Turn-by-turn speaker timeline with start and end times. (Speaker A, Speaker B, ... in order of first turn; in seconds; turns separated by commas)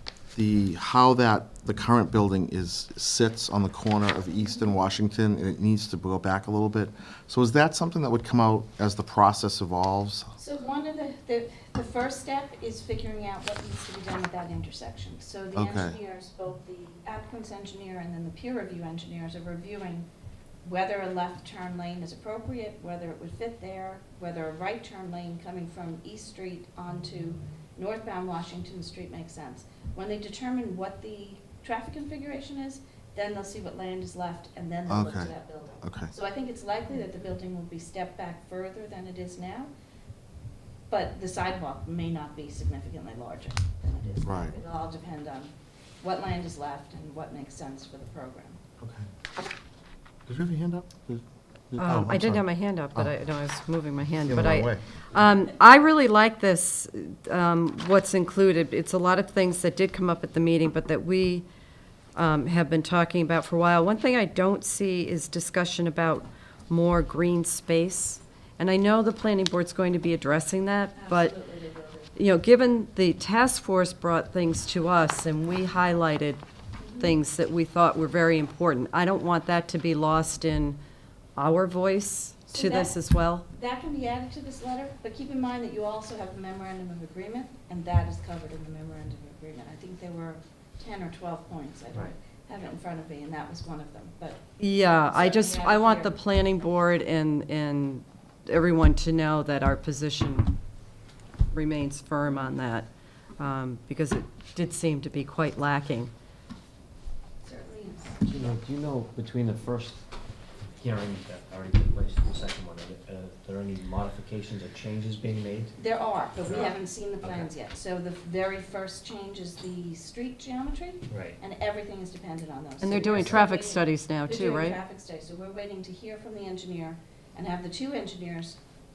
Speaker A: 0.3-10.3, Speaker B: 10.4-20.1, Speaker A: 15.6-16.0, Speaker B: 20.6-39.7, Speaker A: 34.9-36.1, Speaker B: 40.9-48.6, Speaker A: 44.2-44.6, Speaker A: 48.8-49.1, Speaker A: 50.3-53.1, Speaker C: 51.8-61.5, Speaker A: 54.2-54.8, Speaker C: 62.1-71.3, Speaker B: 71.0-72.1, Speaker C: 72.2-76.4, Speaker B: 76.8-77.2, Speaker C: 77.0-80.8, Speaker C: 81.4-83.5, Speaker B: 82.5-83.0, Speaker B: 83.5-96.2, Speaker C: 94.6-100.5, Speaker C: 101.5-106.1, Speaker B: 107.4-108.3, Speaker D: 108.2-110.0, Speaker D: 110.8-115.7, Speaker B: 115.8-128.6, Speaker D: 116.4-117.5, Speaker D: 121.1-121.4, Speaker C: 122.8-124.8, Speaker D: 123.1-123.4